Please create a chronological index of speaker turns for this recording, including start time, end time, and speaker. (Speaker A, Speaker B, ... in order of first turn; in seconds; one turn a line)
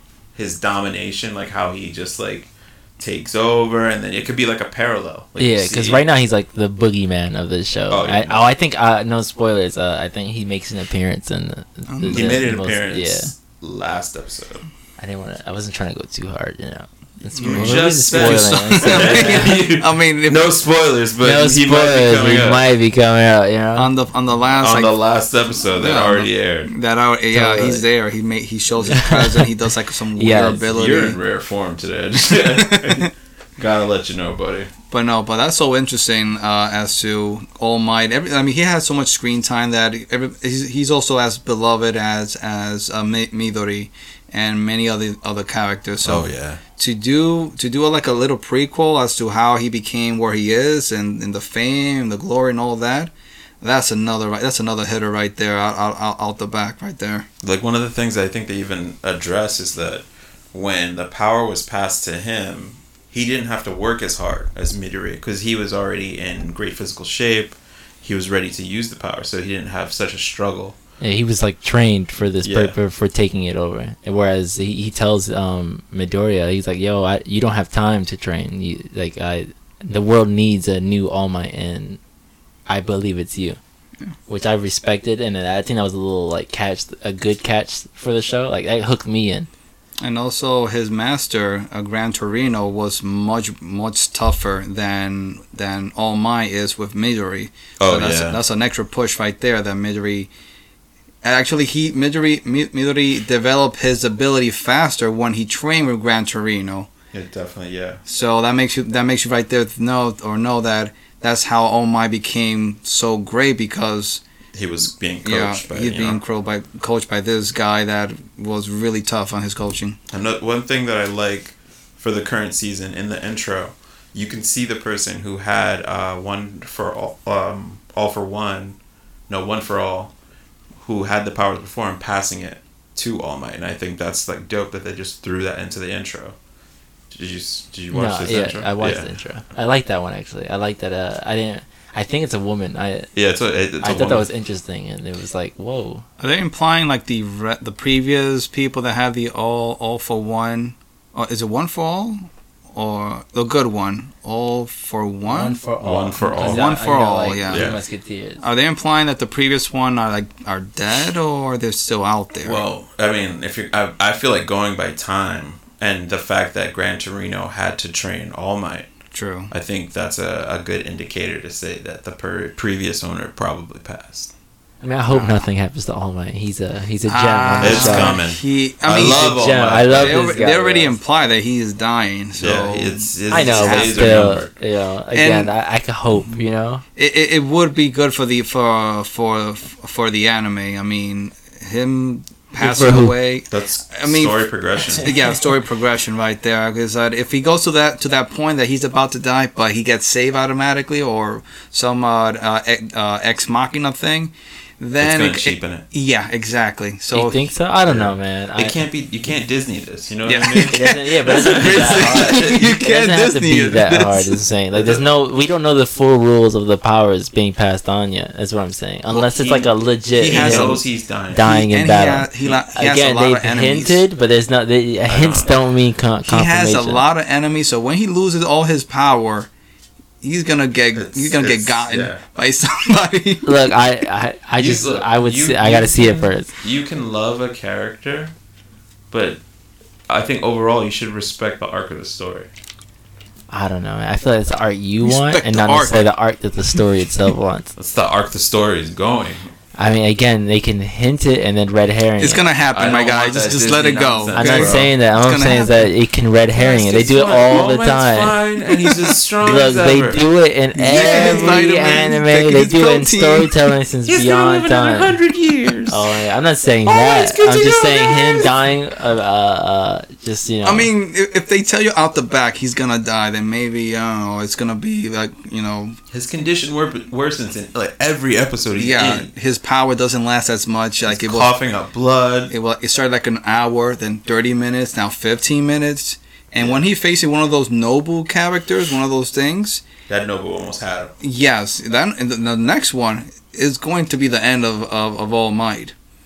Speaker A: 0.3-6.0
Speaker B: 5.4-13.3
Speaker A: 7.9-8.5
Speaker C: 11.9-12.3
Speaker A: 12.1-14.7
Speaker B: 15.0-19.6
Speaker A: 17.4-22.6
Speaker C: 17.4-20.5
Speaker B: 21.2-23.9
Speaker C: 23.8-24.9
Speaker A: 24.6-26.7
Speaker C: 25.6-31.2
Speaker B: 27.3-27.8
Speaker B: 28.9-29.5
Speaker B: 30.1-30.6
Speaker A: 30.7-34.7
Speaker C: 32.5-33.1
Speaker C: 34.9-57.3
Speaker A: 46.0-46.6
Speaker A: 57.4-70.8
Speaker B: 71.0-82.0
Speaker A: 72.4-72.8
Speaker B: 82.7-83.6
Speaker B: 84.3-89.5
Speaker C: 90.0-100.3
Speaker A: 97.8-98.4
Speaker C: 101.2-106.9
Speaker A: 107.1-108.0
Speaker C: 108.0-114.2
Speaker A: 114.5-116.2
Speaker C: 115.2-120.0
Speaker A: 120.1-128.8
Speaker A: 129.3-130.1
Speaker A: 130.8-136.3
Speaker A: 137.1-139.1
Speaker B: 137.9-143.1
Speaker A: 143.2-144.2
Speaker B: 143.8-146.0
Speaker C: 146.2-155.6
Speaker B: 155.2-158.4
Speaker A: 155.8-156.7
Speaker C: 156.3-157.7
Speaker A: 157.5-157.8
Speaker C: 158.4-162.6
Speaker A: 162.4-168.9
Speaker C: 169.1-169.5
Speaker A: 169.5-174.3
Speaker B: 174.8-178.2
Speaker C: 175.1-175.4
Speaker C: 177.1-179.3
Speaker A: 177.6-180.2
Speaker B: 179.0-181.0
Speaker C: 179.9-184.3
Speaker A: 182.4-184.5
Speaker B: 183.3-186.8
Speaker C: 185.1-185.5
Speaker C: 186.9-207.5
Speaker B: 192.6-193.2
Speaker A: 193.5-195.2
Speaker A: 205.0-205.8
Speaker B: 207.1-208.8
Speaker A: 207.9-212.7
Speaker C: 210.2-215.0
Speaker B: 210.7-227.0
Speaker C: 219.2-219.6
Speaker A: 219.2-219.6
Speaker C: 220.2-220.8
Speaker A: 220.2-221.4
Speaker C: 221.4-224.0
Speaker A: 225.1-225.5
Speaker C: 226.2-229.5
Speaker C: 230.2-233.5
Speaker A: 230.9-232.2
Speaker B: 233.4-236.5
Speaker A: 234.6-238.3
Speaker A: 239.1-239.4
Speaker A: 240.1-242.5
Speaker B: 243.5-247.7
Speaker C: 245.0-246.1
Speaker A: 247.8-249.5
Speaker B: 249.8-252.4
Speaker C: 252.2-255.9
Speaker A: 252.7-254.9
Speaker B: 254.3-258.4
Speaker A: 256.5-260.2
Speaker C: 258.8-259.7
Speaker B: 259.4-265.1
Speaker C: 260.7-263.5
Speaker A: 260.9-262.0
Speaker A: 264.1-266.0
Speaker B: 265.9-270.9
Speaker A: 266.9-268.5
Speaker C: 270.6-276.0
Speaker A: 276.1-279.3
Speaker C: 278.7-281.5
Speaker A: 281.1-282.5
Speaker C: 282.5-289.8
Speaker A: 290.1-291.1
Speaker C: 291.2-295.9